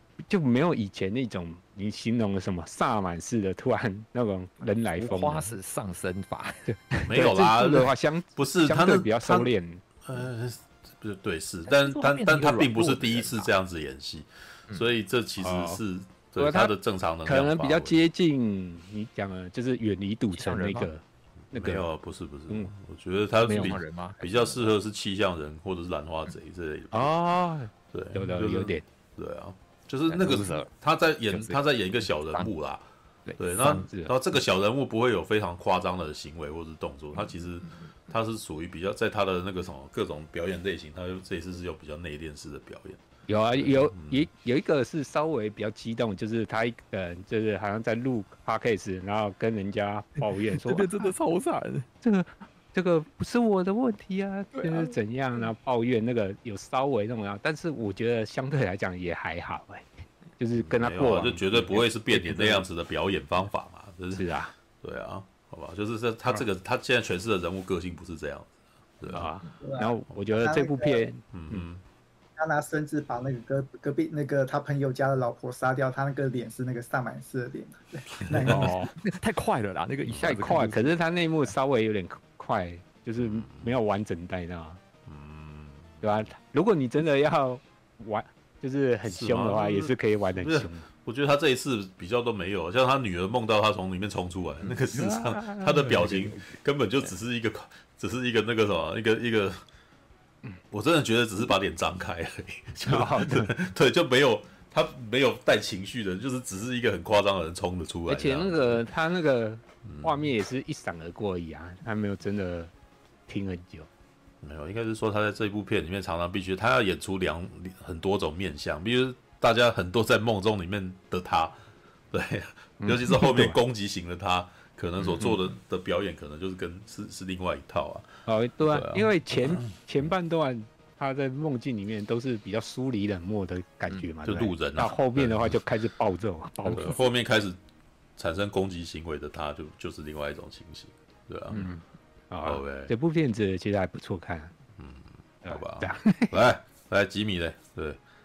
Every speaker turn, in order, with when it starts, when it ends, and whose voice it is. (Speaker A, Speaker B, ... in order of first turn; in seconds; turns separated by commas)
Speaker A: 0.2-5.5, Speaker B: 4.6-6.6, Speaker A: 6.7-9.8, Speaker C: 7.0-9.5, Speaker C: 10.0-18.0, Speaker B: 11.7-13.5, Speaker A: 15.4-15.8, Speaker A: 16.4-16.7, Speaker A: 17.2-21.9, Speaker B: 20.3-20.9, Speaker C: 21.5-27.1, Speaker B: 23.4-24.8, Speaker A: 23.4-23.8, Speaker A: 26.9-28.8, Speaker C: 27.9-32.8, Speaker B: 30.1-30.7, Speaker B: 31.3-32.5, Speaker B: 33.2-33.8, Speaker C: 33.4-44.3, Speaker A: 33.5-34.1, Speaker B: 37.1-37.9, Speaker A: 43.3-51.1, Speaker B: 50.2-51.9, Speaker A: 52.0-62.7, Speaker B: 54.5-55.5, Speaker C: 60.6-64.2, Speaker A: 64.1-64.5, Speaker C: 64.8-69.3, Speaker A: 69.0-71.7, Speaker D: 69.6-71.0, Speaker C: 71.3-71.8, Speaker D: 72.4-78.7, Speaker A: 78.4-78.9, Speaker B: 78.9-81.0, Speaker A: 80.2-84.8, Speaker C: 83.2-83.7, Speaker C: 85.1-86.0, Speaker A: 86.0-90.8, Speaker C: 89.0-99.6, Speaker A: 94.7-96.5, Speaker C: 100.7-108.8, Speaker A: 102.8-103.5, Speaker A: 108.1-112.7, Speaker C: 109.8-110.3, Speaker A: 113.3-113.9, Speaker C: 114.4-121.6, Speaker C: 122.1-130.1, Speaker A: 122.8-123.6, Speaker A: 125.0-125.4, Speaker A: 128.2-137.0, Speaker C: 133.9-135.6, Speaker C: 136.7-137.6, Speaker C: 138.2-141.6, Speaker A: 141.5-144.5, Speaker C: 142.4-142.9, Speaker C: 144.8-148.0, Speaker A: 145.5-146.4